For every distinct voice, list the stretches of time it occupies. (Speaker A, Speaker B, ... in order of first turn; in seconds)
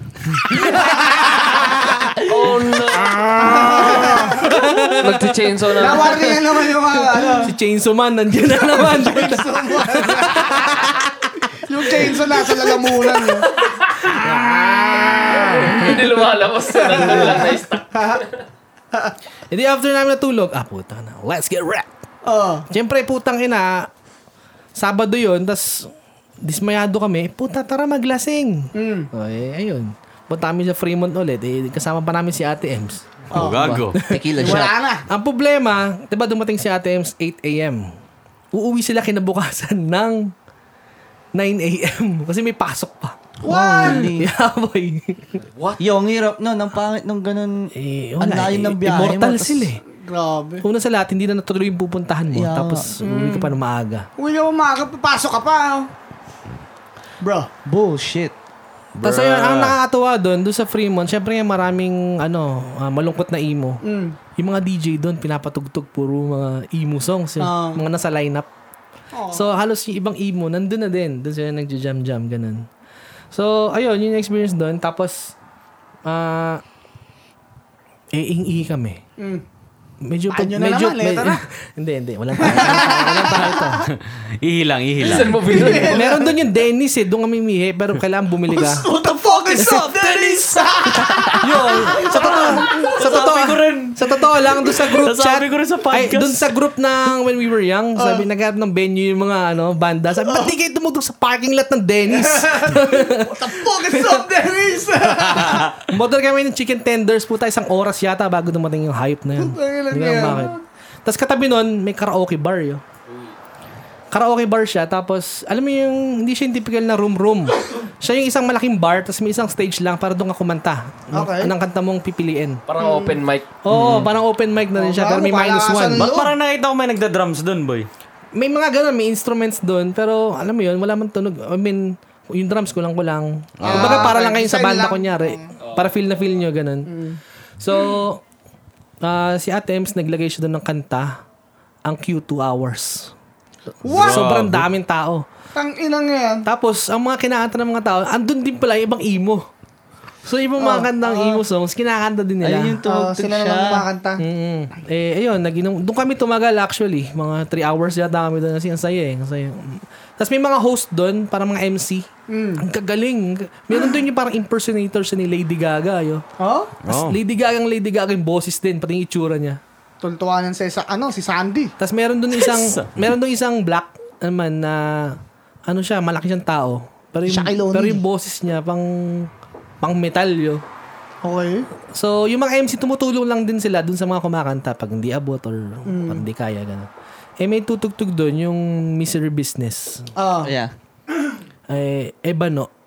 Speaker A: 0.3-2.2, 2.9-13.4, 14.0-16.2, 16.9-17.5, 19.5-21.9, 22.7-23.9, 24.7-25.9, 26.4-33.2, 33.9-37.9, 38.5-40.3, 41.3-45.4, 47.7-49.8, 50.6-54.1, 59.0-63.8, 64.4-68.5, 69.3-72.7, 73.3-75.3, 76.0-76.6, 78.1-79.0, 80.0-83.9, 85.5-88.9, 89.6-89.9, 91.3-104.2, 105.5-112.8, 114.1-122.6, 123.6-126.1, 128.3-136.9, 137.6-138.2, 139.0-141.2, 141.8-143.1, 143.8-145.2, 146.4-149.5, 150.2-152.8, 154.2-162.1, 162.6-166.2, 166.8-169.6, 171.8-179.3, 179.8-180.6, 181.9-186.9, 187.4-190.1, 191.7-192.7
Speaker B: 0.6-1.1, 3.4-4.7, 5.8-7.5, 8.5-13.5, 16.9-18.2, 22.2-22.6, 28.7-29.1, 33.3-33.8, 34.3-35.0, 43.5-44.0, 49.9-50.6, 53.0-53.5, 54.2-55.9, 57.2-57.5, 63.8-64.2, 67.4-67.8, 69.1-69.5, 79.2-79.4, 80.3-81.4, 82.4-83.8, 85.4-86.3, 88.5-92.9, 98.0-98.2, 100.2-100.5, 102.1-105.7, 109.3-110.6, 121.1-121.5, 122.8-123.2, 124.8-126.3, 133.6-135.5, 136.9-137.2, 143.8-144.3, 145.5-146.4, 150.6-151.4, 152.8-154.2, 162.3-162.6, 166.4-166.7, 170.0-171.7, 177.3-178.0, 181.2-181.7, 185.9-186.2, 190.2-190.5
Speaker C: 2.3-3.4, 5.0-6.3, 13.6-14.1, 15.3-18.4, 85.0-86.1, 113.1-113.3, 122.7-123.5, 135.6-135.9
Speaker D: 33.3-34.0, 59.0-59.8, 83.8-85.4, 92.0-96.5, 105.2-105.7, 123.7-124.1, 126.0-127.9, 133.6-134.1, 143.8-144.7, 166.8-167.2, 172.4-172.9
Speaker E: 33.4-34.7, 43.4-44.3, 45.8-47.7, 48.2-49.7, 52.3-53.0, 57.6-58.3, 91.0-91.3, 152.4-153.8, 190.4-190.7